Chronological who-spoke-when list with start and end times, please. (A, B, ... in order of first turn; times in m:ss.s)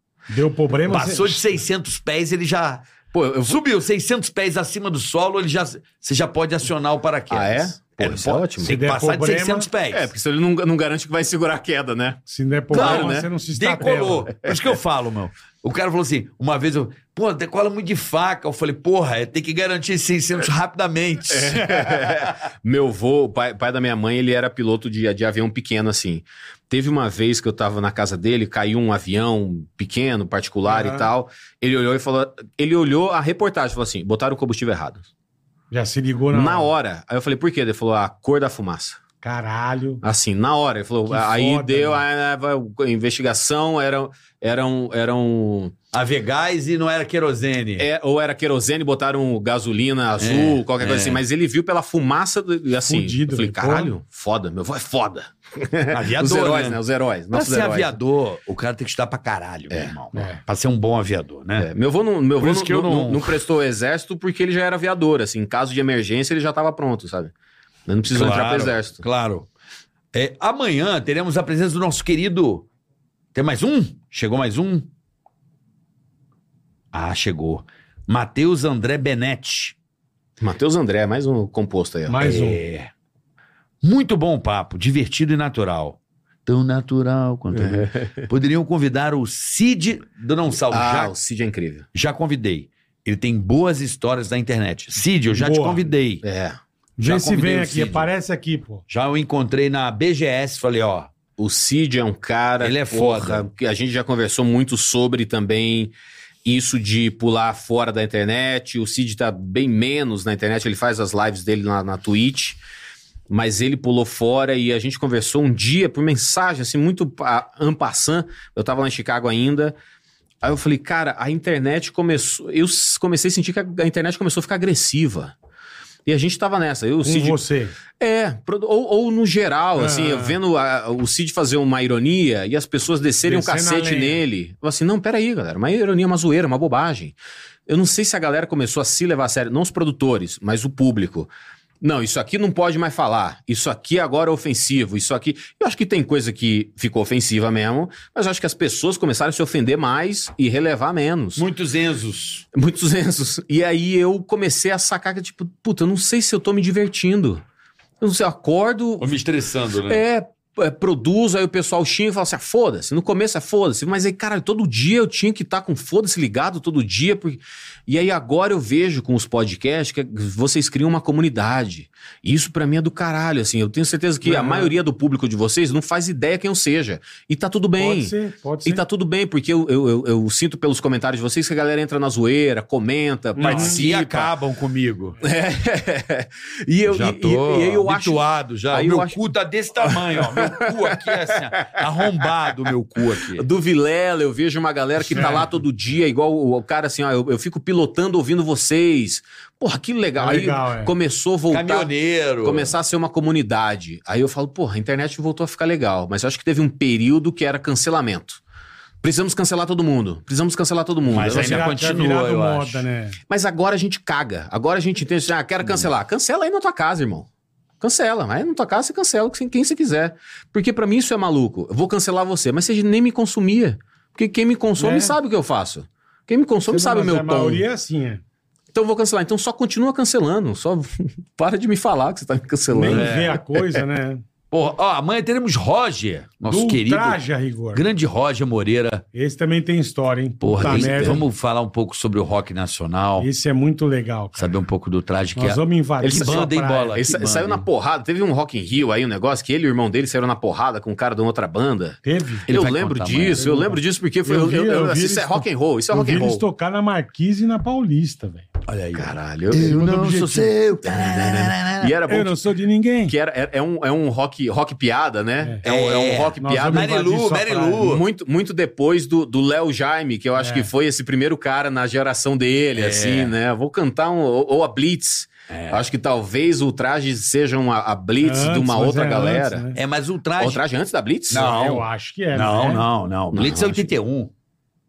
0:00.3-0:01.6 A
0:00.9-0:02.8 B
0:03.1-0:03.6 C
0:03.5-0:10.1 B
0:07.3-0:08.8 C
0:08.6-0:09.7 A
0:09.9-0:12.2 C
0:12.3-0:14.3 A
0:12.7-0:13.3 C
0:12.7-0:22.1 B
0:21.3-0:35.1 C
0:30.7-0:31.1 A
0:35.7-0:36.7 A
0:36.3-0:39.0 C
0:39.2-0:40.0 A
0:40.0-0:45.8 C
0:41.1-0:42.0 A
0:45.9-0:47.9 B
0:47.8-0:58.0 C
0:50.2-0:51.2 B
0:52.9-0:53.9 A
0:55.9-0:56.8 B
0:57.3-1:01.7 B
1:00.2-1:00.4 A
1:01.6-1:07.3 C
1:02.4-1:03.4 B
1:07.9-1:09.0 C
1:08.1-1:09.5 B
1:10.1-1:12.7 B
1:13.3-1:14.9 B
1:16.9-1:19.8 B
1:20.4-1:22.3 C
1:22.1-1:22.6 A
1:22.2-1:22.9 B
1:23.8-1:31.2 B
1:27.5-1:28.3 C
1:30.7-1:31.9 C
1:31.9-1:36.2 B
1:35.3-1:35.9 A
1:36.2-1:36.6 C
1:37.0-1:38.8 A
1:37.0-1:38.1 B
1:38.9-1:41.1 B
1:41.4-1:45.9 C
1:42.6-1:43.5 B
1:46.4-1:52.6 C
1:53.3-1:59.8 C
2:00.4-2:05.3 C
2:06.1-2:07.4 C
2:07.0-2:07.7 A
2:08.0-2:17.2 C
2:09.8-2:10.4 A
2:13.2-2:14.2 A
2:17.7-2:21.3 C
2:21.8-2:31.4 C
2:31.4-2:32.5 B
2:32.5-2:37.4 C
2:38.0-2:39.1 C
2:39.0-2:40.0 B
2:39.9-3:04.3 C
2:54.2-2:54.8 A
2:57.8-2:58.8 A
3:03.4-3:03.8 A
3:03.4-3:05.2 B
3:05.2-3:09.2 C
3:06.9-3:13.5 B
3:09.8-3:12.3 C
3:13.2-3:28.4 C
3:15.1-3:15.4 B
3:15.1-3:15.5 A
3:20.2-3:20.9 A
3:21.5-3:22.7 B
3:29.0-3:31.8 C
3:31.1-3:32.8 B
3:31.1-3:33.2 A
3:33.3-3:37.3 C
3:37.8-3:47.6 C
3:44.8-3:45.2 A
3:46.7-3:48.2 A
3:48.7-3:53.6 C
3:52.7-3:54.2 A
3:52.9-3:53.4 B
3:54.5-3:57.2 B
3:56.5-3:57.8 A
3:57.7-3:59.0 B
3:59.1-4:01.2 A
4:00.4-4:03.3 B
4:00.5-4:01.2 C
4:03.2-4:04.6 A
4:04.4-4:07.7 B
4:05.4-4:07.0 A
4:06.0-4:16.4 C
4:12.0-4:12.5 A
4:12.5-4:13.4 B
4:13.4-4:18.5 A
4:18.7-4:22.0 B
4:19.0-4:22.4 C
4:22.1-4:23.2 A
4:23.1-4:26.9 C
4:25.6-4:28.0 B
4:26.4-4:27.9 A
4:27.8-4:39.7 C
4:30.4-4:30.7 A
4:32.8-4:33.4 B
4:35.5-4:35.8 B
4:38.2-4:39.8 A
4:39.7-4:40.6 B
4:40.4-4:41.6 C
4:41.3-4:44.3 B
4:41.3-4:42.9 A
4:43.3-4:43.9 C